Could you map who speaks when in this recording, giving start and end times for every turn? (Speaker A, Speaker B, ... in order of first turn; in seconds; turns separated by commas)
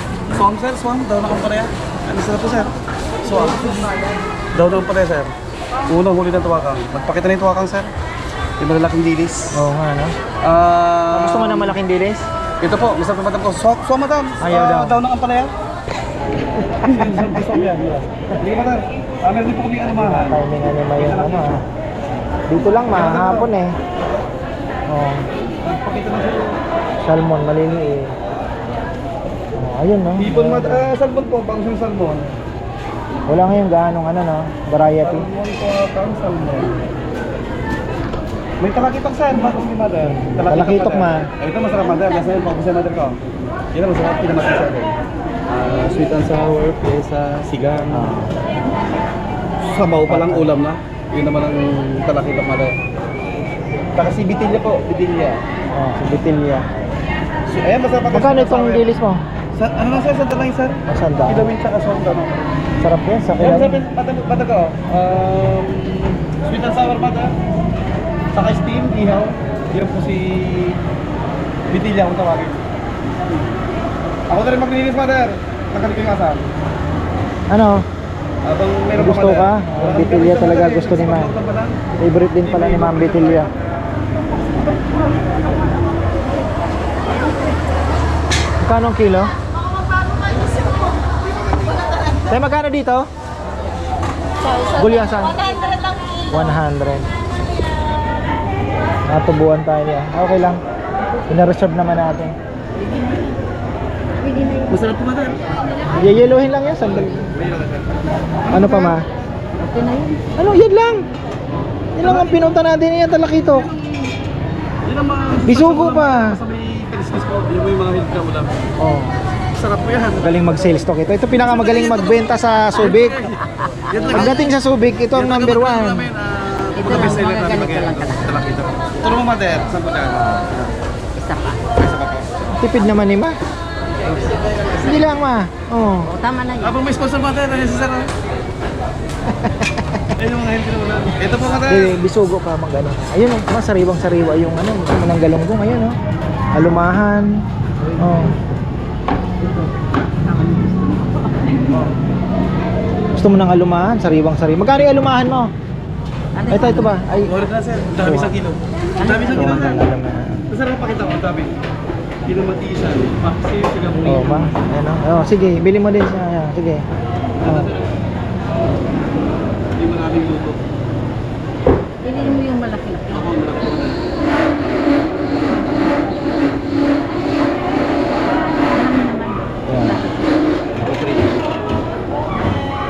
Speaker A: 0.3-2.7, Speaker A: 3.2-4.0, Speaker A: 4.5-5.3, Speaker A: 5.9-7.9, Speaker A: 8.6-9.6, Speaker B: 9.5-10.2, Speaker A: 10.4-11.8, Speaker B: 11.1-12.3, Speaker A: 12.6-15.5, Speaker B: 14.4-15.0, Speaker A: 16.8-20.4, Speaker B: 19.9-21.6, Speaker A: 21.0-21.6, Speaker B: 22.5-23.8, Speaker A: 22.8-23.5, Speaker B: 24.9-25.3, Speaker A: 25.6-26.6, Speaker B: 27.0-28.2, Speaker B: 29.6-30.9, Speaker A: 30.2-32.4, Speaker B: 33.3-35.3, Speaker A: 35.0-36.8, Speaker A: 38.6-43.2, Speaker B: 40.1-41.3, Speaker A: 43.7-44.9, Speaker A: 45.5-48.2, Speaker B: 47.9-48.3, Speaker A: 49.7-52.7, Speaker B: 50.1-50.5, Speaker A: 54.0-55.4, Speaker B: 55.7-56.7, Speaker A: 57.5-58.9, Speaker B: 58.1-59.2, Speaker A: 59.6-62.3, Speaker B: 60.9-61.5, Speaker B: 62.8-63.8, Speaker A: 63.4-67.3, Speaker A: 68.3-70.8, Speaker A: 71.7-72.6, Speaker A: 74.3-76.5, Speaker B: 77.5-77.8, Speaker A: 78.5-81.8, Speaker B: 79.0-81.3, Speaker B: 82.0-83.5, Speaker A: 82.4-83.6, Speaker B: 88.6-89.3, Speaker B: 92.3-93.1, Speaker B: 94.7-95.4, Speaker B: 96.3-97.1, Speaker B: 99.1-100.6, Speaker B: 101.3-102.3, Speaker A: 104.7-105.4, Speaker B: 106.0-107.3, Speaker A: 107.3-109.0, Speaker B: 108.5-109.0, Speaker B: 110.4-111.1, Speaker B: 112.0-113.7, Speaker A: 112.0-112.6, Speaker A: 113.4-114.1, Speaker A: 114.8-118.7, Speaker B: 115.5-116.4, Speaker B: 118.8-119.2, Speaker A: 119.6-120.7, Speaker B: 120.2-123.2, Speaker A: 121.3-124.6, Speaker B: 124.1-126.1, Speaker A: 125.1-130.7, Speaker C: 126.8-128.3, Speaker C: 131.2-131.7, Speaker A: 131.8-132.2, Speaker B: 132.4-133.4, Speaker C: 134.8-135.1, Speaker B: 134.8-136.1, Speaker C: 136.1-136.8, Speaker A: 136.6-138.1, Speaker B: 139.3-140.0, Speaker A: 140.2-142.0, Speaker B: 141.7-146.0, Speaker B: 146.5-147.3, Speaker B: 148.0-148.3, Speaker C: 150.4-151.2, Speaker B: 151.7-152.0, Speaker B: 153.2-155.5, Speaker C: 156.4-157.0, Speaker B: 156.5-157.3, Speaker A: 157.2-159.8, Speaker B: 158.0-158.4, Speaker C: 159.0-159.5, Speaker B: 159.2-160.4, Speaker A: 160.5-161.5, Speaker A: 162.2-164.6, Speaker B: 164.0-166.8, Speaker A: 167.4-167.9, Speaker B: 167.4-167.7, Speaker A: 169.8-170.6, Speaker B: 172.1-172.4, Speaker A: 173.1-174.1, Speaker B: 179.7-180.0, Speaker A: 180.8-181.4